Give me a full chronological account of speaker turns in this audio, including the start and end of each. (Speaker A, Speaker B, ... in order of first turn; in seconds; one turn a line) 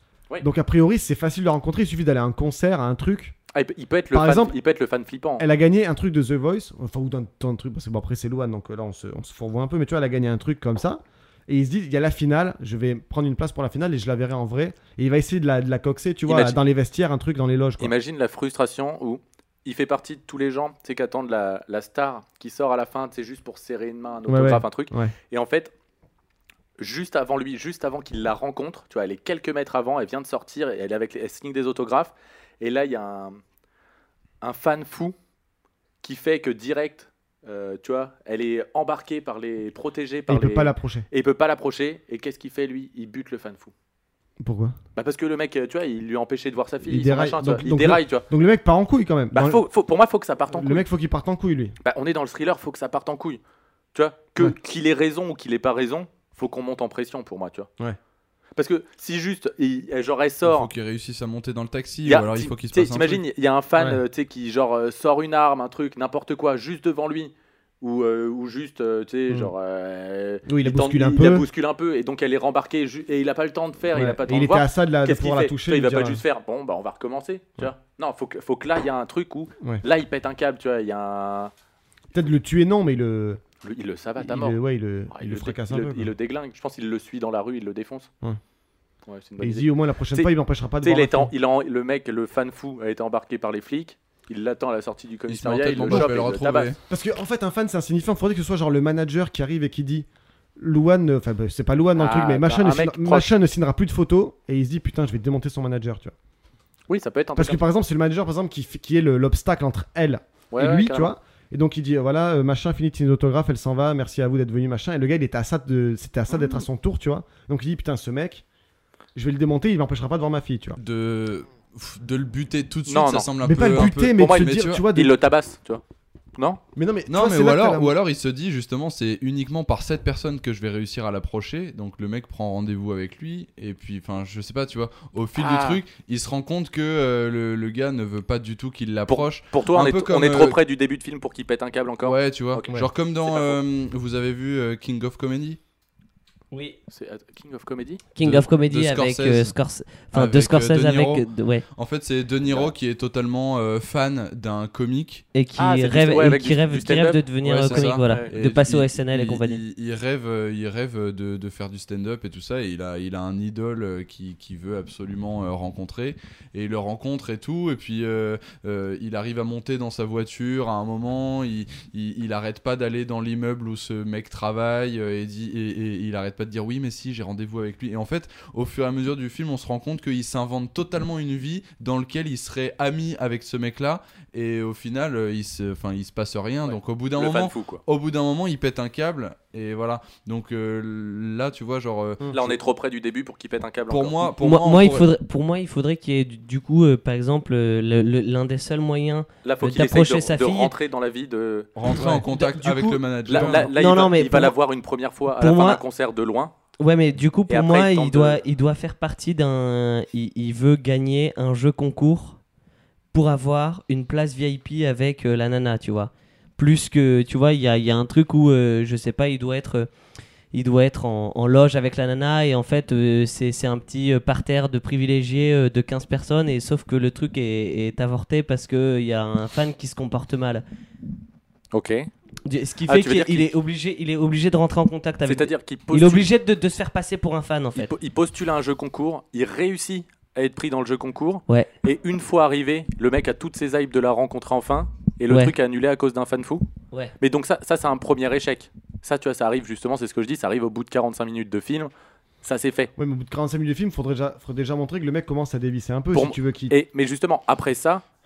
Speaker A: 0.4-3.4
Speaker B: 3.5-5.5
Speaker A: 4.1-4.5
Speaker A: 5.4-17.9
Speaker B: 16.2-16.6
Speaker B: 17.8-25.7
Speaker A: 24.3-25.1
Speaker B: 26.8-33.4
Speaker B: 34.4-35.1
Speaker B: 36.0-43.7
Speaker A: 40.3-41.0
Speaker A: 44.4-44.8
Speaker B: 44.9-48.2
Speaker A: 46.8-49.6
Speaker B: 49.3-50.9
Speaker A: 50.5-51.7
Speaker B: 51.8-53.4
Speaker B: 53.9-57.7
Speaker B: 58.5-60.7
Speaker C: 60.4-63.2
Speaker B: 62.0-81.5
Speaker A: 70.5-71.5
Speaker A: 73.9-76.2
Speaker A: 82.1-83.4
Speaker B: 83.6-84.6
Speaker A: 84.2-86.1
Speaker B: 85.1-88.1
Speaker B: 89.1-90.3
Speaker A: 89.4-91.3
Speaker B: 90.8-96.7
Speaker C: 95.3-96.8
Speaker A: 95.8-96.1
Speaker A: 96.9-106.1
Speaker B: 102.0-103.3
Speaker B: 106.9-107.6
Speaker A: 107.3-118.4
Speaker B: 110.5-111.1
Speaker B: 116.3-116.6
Speaker A: 119.1-120.8
Speaker C: 120.8-124.8
Speaker B: 122.9-125.8
Speaker A: 123.4-125.2
Speaker A: 126.8-127.9
Speaker C: 127.1-140.6
Speaker B: 135.3-135.8
Speaker B: 139.1-142.7
Speaker C: 142.0-145.6
Speaker B: 143.2-143.6
Speaker D: 146.5-146.8
Speaker B: 146.9-148.0
Speaker D: 148.1-151.6
Speaker C: 148.2-149.5
Speaker C: 150.1-155.2
Speaker B: 152.5-152.7
Speaker D: 155.3-159.6
Speaker B: 155.6-158.3
Speaker C: 157.4-192.3
Speaker B: 186.6-187.8
Speaker A: 192.2-192.5
Speaker B: 192.3-194.3
Speaker C: 193.9-195.1
Speaker D: 194.4-200.7
Speaker B: 199.4-206.5
Speaker C: 201.8-203.7
Speaker A: 201.9-202.2
Speaker D: 202.4-204.5
Speaker D: 205.4-205.8
Speaker D: 206.8-212.4
Speaker B: 207.5-208.4
Speaker D: 213.1-219.9
Speaker D: 220.5-230.6
Speaker B: 231.7-232.1
Speaker D: 232.4-237.9
Speaker B: 232.9-233.5
Speaker B: 235.2-236.3
Speaker B: 237.7-246.7
Speaker B: 247.2-251.9
Speaker B: 252.4-252.9
Speaker A: 253.0-256.8
Speaker B: 256.1-258.0